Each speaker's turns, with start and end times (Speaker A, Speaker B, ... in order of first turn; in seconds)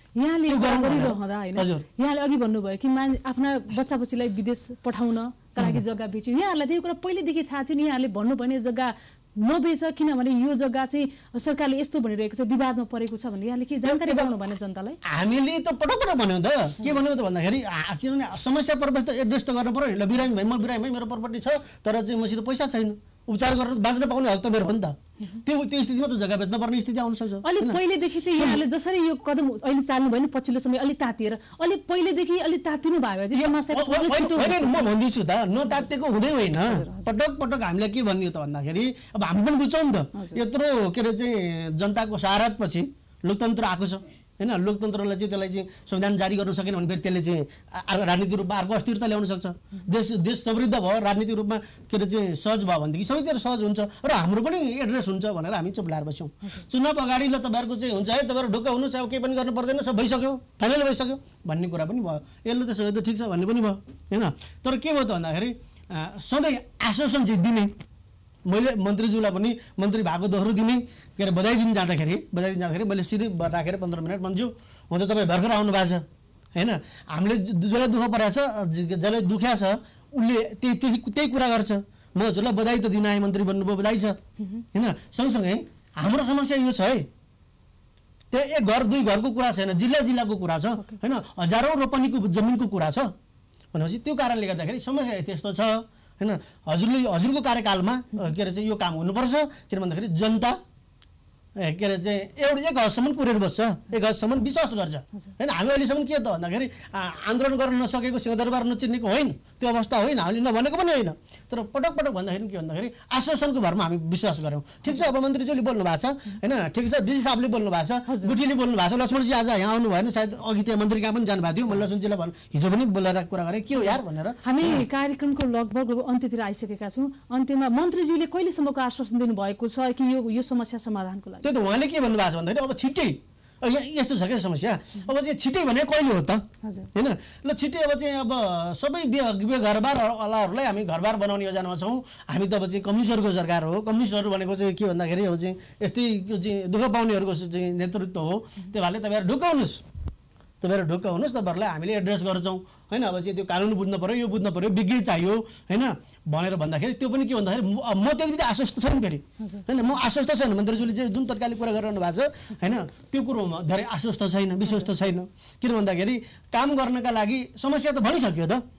Speaker A: 0.2-15.0, 27.4-34.9, 36.7-37.1, 118.1-118.4, 123.8-131.6, 136.6-136.9, 159.4-159.7
Speaker B: 0.5-1.8, 13.9-14.3, 15.0-27.8, 28.3-28.6, 33.3-67.7, 68.5-84.2, 84.7-87.1, 88.3-93.1, 93.7-100.6, 101.6-124.8, 131.4-149.8, 150.6-168.6